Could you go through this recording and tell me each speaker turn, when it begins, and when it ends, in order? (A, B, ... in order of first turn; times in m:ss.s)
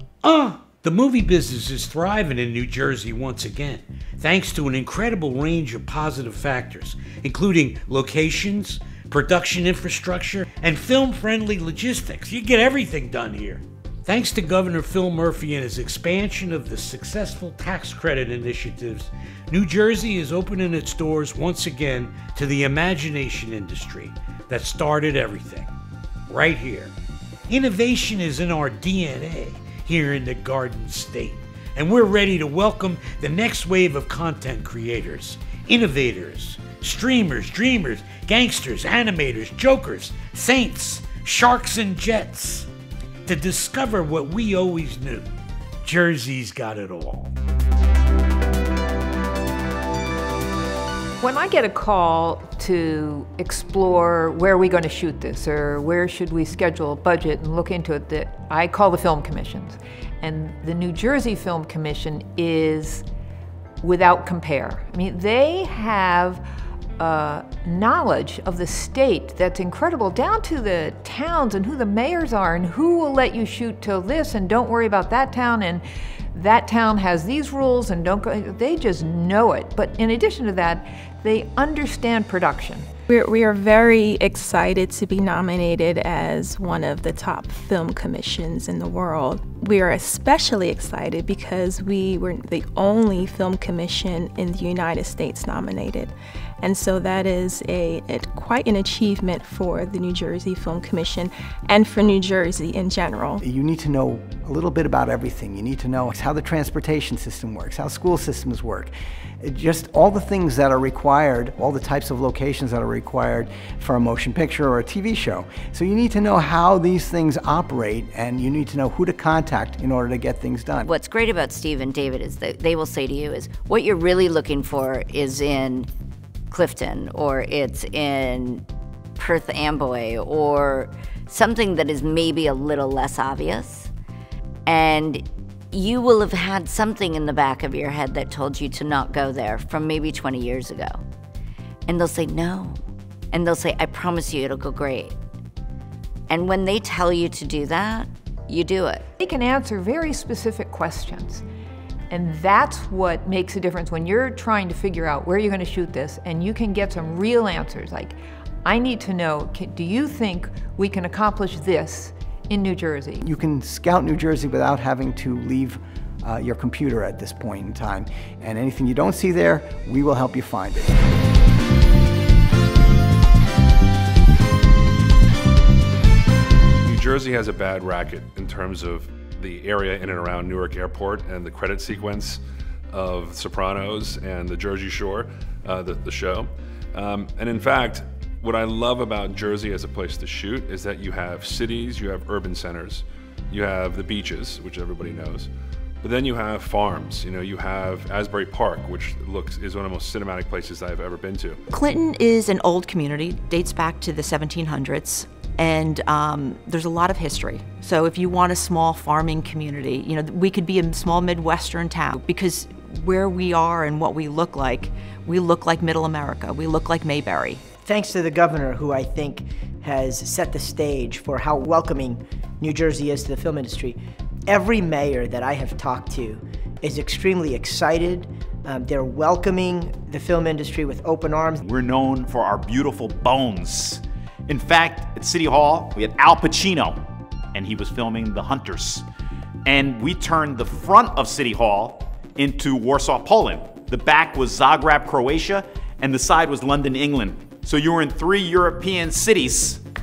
0:00.2-0:25.7 A
0:26.3-0:26.9 A
0:27.5-0:42.7 A
0:43.3-0:45.3 A
0:45.8-0:47.3 A
0:51.2-1:03.1 B
1:03.8-1:06.4 B
1:07.0-1:22.9 B
1:23.1-1:43.4 C
1:43.4-2:00.9 D
2:00.8-2:05.9 E
2:06.5-2:08.6 E
2:09.2-2:13.9 E
2:14.6-2:21.0 E
2:21.9-2:22.8 E
2:23.3-2:25.1 E
2:26.3-2:29.0 E
2:29.2-2:31.4 B
2:32.1-2:43.2 B
2:43.2-2:51.0 D
2:56.8-3:02.4 F
3:02.9-3:15.5 F
3:16.0-3:21.6 F
3:21.7-3:37.6 G
3:37.8-3:51.6 H
3:51.7-3:57.0 I
3:57.5-3:59.0 I
3:59.7-4:09.8 I